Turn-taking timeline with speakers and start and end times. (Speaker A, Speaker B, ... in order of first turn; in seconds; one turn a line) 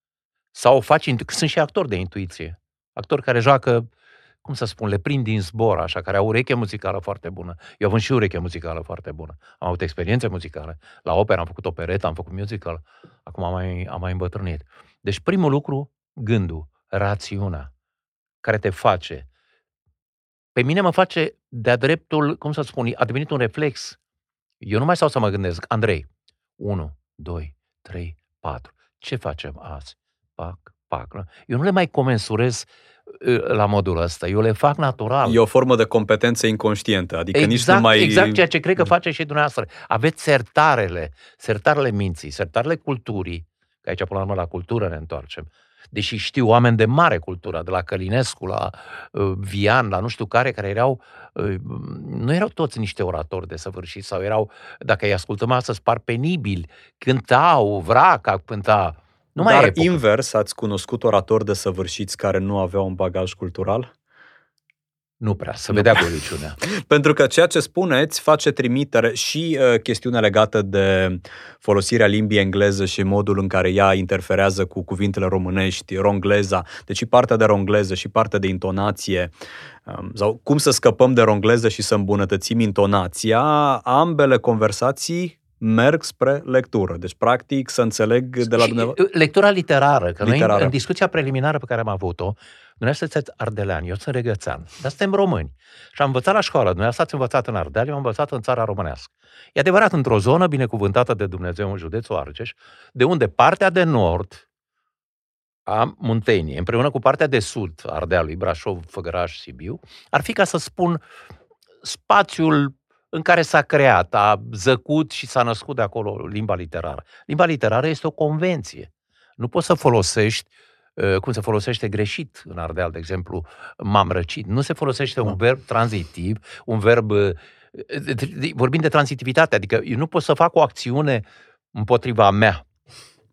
Speaker A: 0.5-3.9
Speaker A: 4.4-17.7
Speaker A: 18.4-19.3
Speaker A: 20.6-24.0
Speaker A: 24.6-26.1
Speaker A: 26.6-35.4
Speaker B: 35.2-38.4
Speaker A: 37.3-60.0
Speaker B: 59.4-63.9
Speaker A: 65.2-66.6
Speaker B: 65.7-66.0
Speaker B: 66.6-79.3
Speaker B: 79.9-89.0
Speaker A: 88.5-104.4
Speaker B: 90.2-90.7
Speaker A: 105.7-111.0
Speaker A: 111.8-132.6